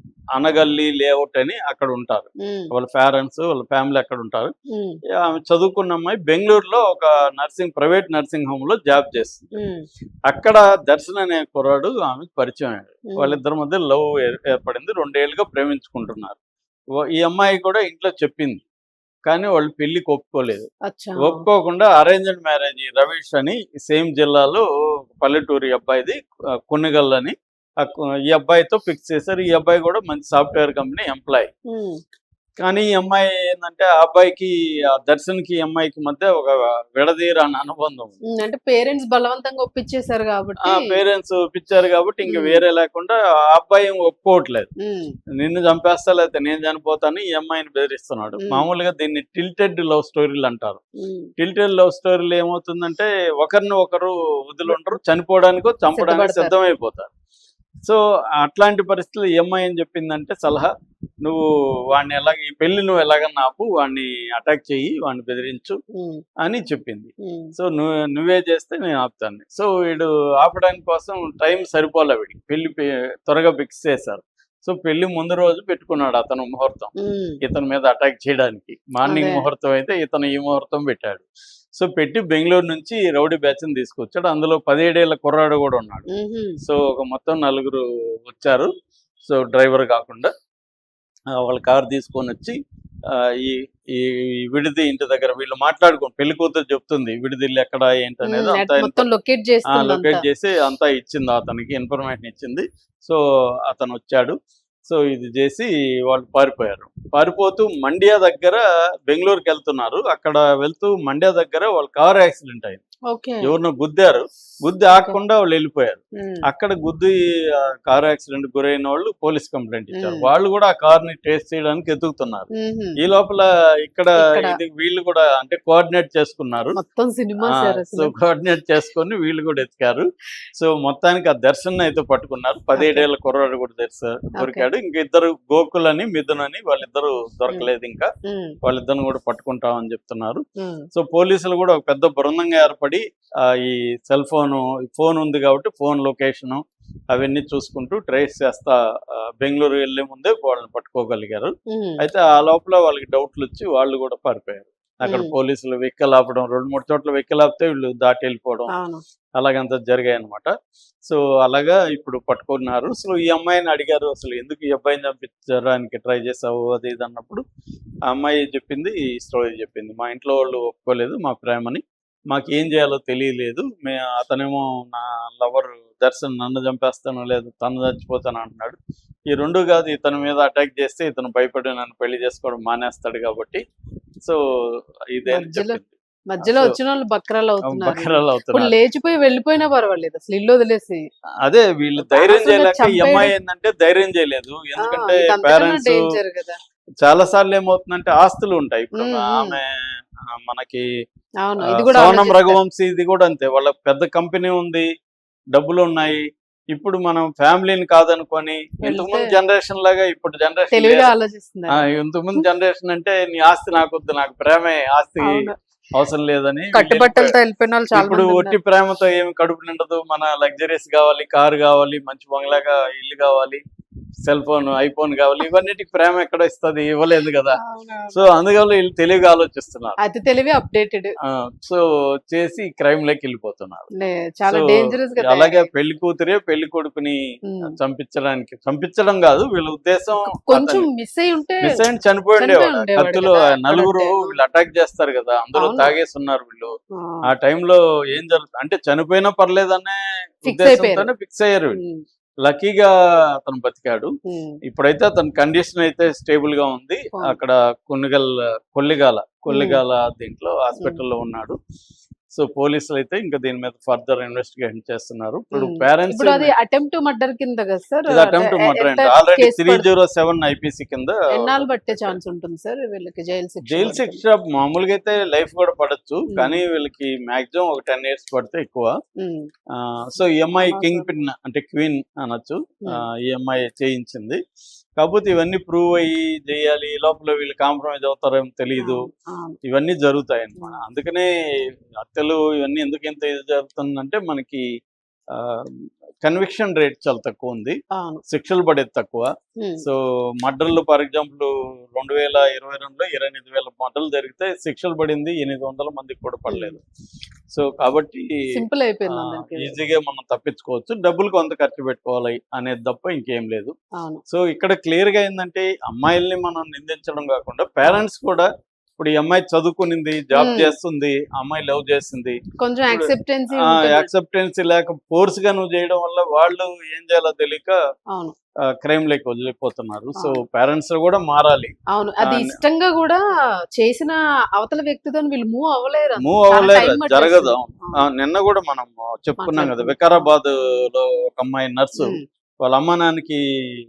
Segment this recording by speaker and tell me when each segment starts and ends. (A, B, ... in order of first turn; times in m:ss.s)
0:00.3-0:04.5 A
0:02.4-0:02.7 B
0:04.7-0:05.0 B
0:05.2-0:09.5 A
0:09.6-0:09.8 B
0:10.3-0:16.4 A
0:13.1-0:13.4 B
0:17.0-0:18.6 A
0:19.3-0:20.7 A
0:20.9-0:21.4 B
0:21.2-0:26.2 A
0:26.7-0:31.5 A
0:31.7-0:32.0 B
0:32.6-0:38.2 A
0:38.3-0:41.0 B
0:40.6-0:44.7 A
0:42.2-0:42.6 B
0:44.8-0:45.1 B
0:45.4-0:50.8 A
0:48.4-0:48.6 B
0:51.0-0:51.3 B
0:51.4-0:57.1 A
0:55.9-0:56.5 B
0:57.8-1:00.7 A
1:01.2-1:05.8 A
1:05.9-1:06.2 B
1:06.4-1:16.9 A
1:07.2-1:07.5 B
1:17.0-1:17.4 B
1:17.4-1:21.2 A
1:19.0-1:19.5 B
1:21.8-1:26.0 A
1:26.1-1:26.6 B
1:26.6-1:28.7 A
1:29.2-1:30.3 A
1:31.3-1:32.6 A
1:33.1-1:39.0 A
1:38.2-1:40.2 B
1:39.7-1:44.4 A
1:44.9-1:52.8 A
1:53.1-1:53.5 B
1:53.4-2:02.5 A
1:56.2-1:56.4 B
1:59.9-2:00.3 B
2:02.6-2:03.0 B
2:03.0-2:06.8 A
2:04.2-2:04.6 B
2:06.7-2:08.1 B
2:07.4-2:10.0 A
2:10.6-2:18.1 A
2:12.7-2:13.1 B
2:14.4-2:14.7 B
2:18.2-2:18.6 B
2:18.6-2:38.7 A
2:20.6-2:20.9 B
2:31.7-2:32.0 B
2:35.0-2:35.3 B
2:38.7-2:39.0 B
2:39.4-2:40.5 A
2:41.1-2:47.4 A
2:48.1-2:58.8 A
2:59.3-3:03.6 A
3:04.2-3:06.8 A
3:05.3-3:11.0 B
3:07.6-3:08.7 A
3:11.4-3:16.0 A
3:12.0-3:13.3 B
3:14.8-3:16.6 B
3:17.0-3:20.8 A
3:19.0-3:19.6 B
3:21.4-3:22.6 B
3:21.6-3:24.9 A
3:25.5-3:31.1 A
3:28.8-3:29.3 B
3:30.7-3:31.8 B
3:31.7-3:37.3 A
3:35.2-3:35.6 B
3:36.7-3:38.6 B
3:37.9-3:43.6 A
3:44.2-3:47.6 A
3:47.6-3:48.2 B
3:48.1-3:50.0 A
3:50.0-3:51.1 B
3:51.2-3:53.9 A
3:53.9-3:55.7 B
3:54.5-4:00.9 A
3:57.5-3:57.7 B
4:00.2-4:01.8 B
4:01.6-4:06.7 A
4:02.4-4:04.4 B
4:05.5-4:05.9 B
4:07.0-4:07.3 B
4:07.3-4:11.8 A
4:10.5-4:11.1 B
4:11.7-4:12.0 B
4:12.4-4:14.1 A
4:14.2-4:14.6 B
4:14.6-4:21.6 A
4:19.5-4:19.8 B
4:20.7-4:21.0 B
4:22.3-4:26.5 A
4:25.5-4:29.8 B
4:28.1-4:32.2 A
4:31.4-4:34.2 B
4:33.7-4:38.9 A
4:36.3-4:36.6 B
4:39.2-4:39.5 B
4:39.8-4:44.4 A
4:40.6-4:41.1 B
4:45.0-4:49.0 A
4:48.8-4:49.6 B
4:49.6-4:51.3 A
4:52.0-4:54.6 A
4:55.3-4:59.3 A
4:57.9-4:58.2 B
4:59.6-4:59.8 B
4:59.8-5:06.8 A
5:06.5-5:06.8 B
5:07.5-5:08.4 A
5:08.5-5:09.8 B
5:09.1-5:13.7 A
5:14.0-5:14.2 B
5:14.3-5:22.4 A
5:20.3-5:20.7 B
5:22.6-5:24.1 B
5:22.9-5:27.8 A
5:28.7-5:32.6 A
5:31.9-5:33.2 B
5:33.8-5:38.0 B
5:36.2-5:43.4 A
5:39.4-5:40.3 B